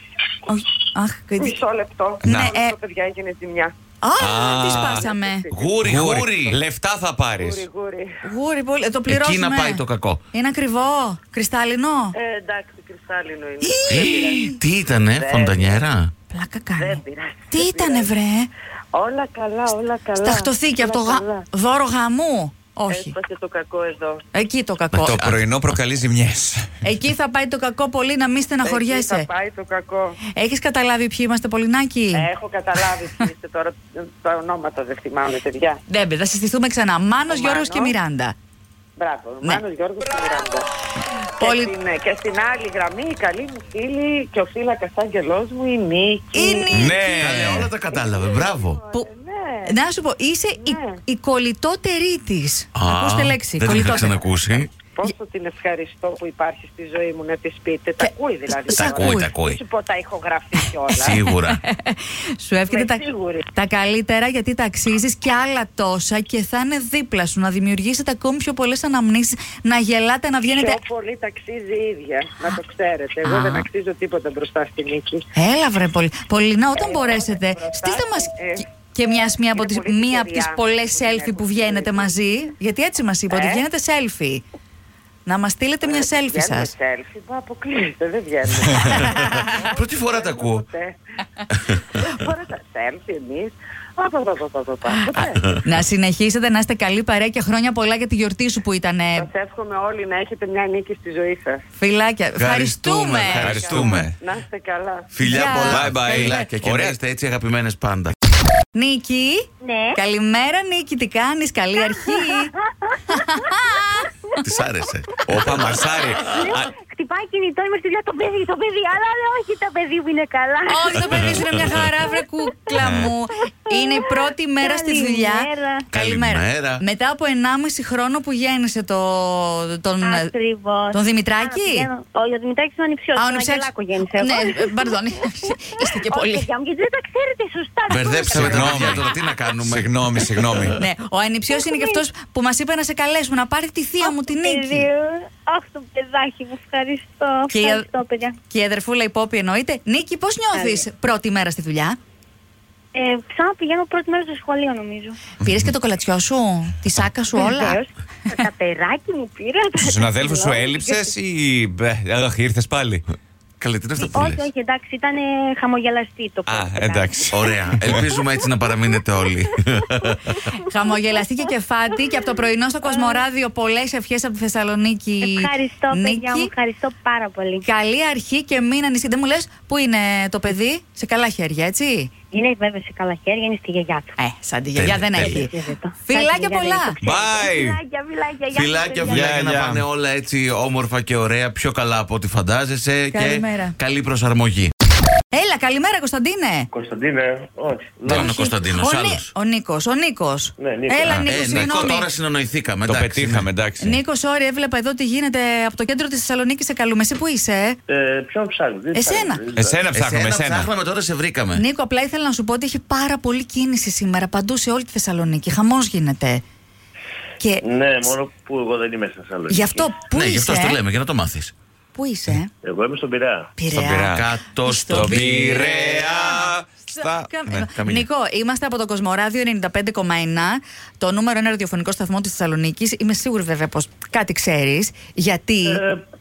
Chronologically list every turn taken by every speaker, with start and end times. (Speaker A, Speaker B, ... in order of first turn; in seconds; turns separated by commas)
Speaker A: 0.5-1.5, Speaker B: 1.4-3.7, Speaker C: 2.2-2.6, Speaker A: 2.2-2.7, Speaker A: 4.0-5.4, Speaker C: 4.2-5.1, Speaker B: 4.7-5.8, Speaker D: 5.5-6.6, Speaker C: 5.8-7.6, Speaker B: 7.3-8.1, Speaker A: 8.2-9.8, Speaker D: 9.1-10.2, Speaker A: 10.3-12.2, Speaker B: 12.2-14.5, Speaker A: 13.6-14.5, Speaker D: 13.9-16.1, Speaker B: 15.1-15.8, Speaker A: 16.3-18.5, Speaker B: 16.8-18.1, Speaker B: 18.9-21.4, Speaker A: 20.2-23.1, Speaker B: 22.9-24.2, Speaker A: 24.3-25.1, Speaker D: 24.9-25.4, Speaker C: 25.0-26.7, Speaker A: 26.8-29.3, Speaker B: 28.6-30.2, Speaker A: 30.3-32.3, Speaker B: 32.1-35.8, Speaker A: 35.9-38.3, Speaker B: 37.3-38.0, Speaker B: 39.0-40.7, Speaker A: 41.4-41.7, Speaker B: 41.4-46.8, Speaker A: 46.3-47.5, Speaker C: 46.7-47.7, Speaker D: 46.8-48.8, Speaker B: 47.9-49.8, Speaker A: 49.6-54.1, Speaker B: 50.6-51.0, Speaker D: 52.7-54.7, Speaker B: 55.0-61.2, Speaker A: 58.7-59.3, Speaker D: 58.7-59.6, Speaker D: 61.0-61.6, Speaker A: 61.6-70.8, Speaker B: 62.7-63.4, Speaker B: 70.5-75.2, Speaker A: 73.2-73.7, Speaker A: 75.3-78.3, Speaker B: 76.8-78.7, Speaker A: 78.8-84.4, Speaker B: 79.5-82.2, Speaker B: 83.3-83.6, Speaker A: 85.2-86.7, Speaker B: 85.8-91.0, Speaker A: 88.9-89.1, Speaker D: 89.0-90.7, Speaker B: 91.8-95.6, Speaker A: 95.6-99.3, Speaker B: 99.2-101.6, Speaker A: 101.8-103.5, Speaker D: 102.3-104.1, Speaker C: 103.3-104.2, Speaker B: 103.5-105.1, Speaker D: 105.1-108.1, Speaker A: 105.2-106.3, Speaker C: 105.6-107.0, Speaker A: 108.7-112.5, Speaker E: 109.6-110.0, Speaker E: 112.1-113.5, Speaker A: 113.1-114.1, Speaker D: 114.4-115.8, Speaker C: 115.3-116.7, Speaker E: 116.2-121.4, Speaker A: 120.7-130.3, Speaker D: 121.2-121.6, Speaker C: 122.7-123.1, Speaker E: 123.7-125.9, Speaker D: 125.9-126.8, Speaker E: 130.0-139.1, Speaker A: 130.9-131.9, Speaker A: 133.1-136.5, Speaker D: 137.9-140.0, Speaker C: 138.3-140.8, Speaker A: 140.8-144.9, Speaker E: 141.5-142.0, Speaker E: 144.0-148.4, Speaker A: 147.5-147.8, Speaker A: 148.5-152.0, Speaker E: 150.5-150.8, Speaker E: 152.9-155.2, Speaker A: 155.4-157.8, Speaker E: 157.3-161.1, Speaker C: 159.8-163.0, Speaker D: 163.6-164.4, Speaker E: 164.0-167.2, Speaker C: 166.4-168.1, Speaker D: 167.3-170.5, Speaker E: 170.3-170.6, Speaker A: 170.6-176.5, Speaker E: 175.2-177.6, Speaker A: 177.6-182.1, Speaker E: 182.3-184.1, Speaker A: 184.2-185.5, Speaker D: 184.7-185.4, Speaker C: 185.1-185.4, Speaker E: 185.4-189.3, Speaker A: 186.1-186.9, Speaker C: 187.0-187.8, Speaker D: 188.5-194.7, Speaker C: 189.1-189.8, Speaker A: 193.1-193.7, Speaker A: 195.3-196.7, Speaker F: 196.7-198.5, Speaker D: 198.1-199.3, Speaker A: 198.1-202.1, Speaker F: 200.6-201.2, Speaker C: 201.1-202.0, Speaker D: 201.2-203.5, Speaker C: 202.8-204.0, Speaker A: 203.8-207.8, Speaker F: 207.9-209.8, Speaker A: 208.9-209.4, Speaker C: 209.5-210.7, Speaker D: 209.9-211.6, Speaker A: 211.5-216.4, Speaker A: 217.4-217.6, Speaker F: 217.6-219.9, Speaker A: 219.5-220.8, Speaker D: 220.1-221.5, Speaker A: 221.9-222.5, Speaker F: 222.6-223.5, Speaker A: 223.6-224.1, Speaker C: 223.7-224.3, Speaker D: 223.7-225.6, Speaker A: 224.6-226.4, Speaker C: 224.9-227.7, Speaker A: 226.9-235.8, Speaker D: 227.7-228.1, Speaker F: 235.6-236.0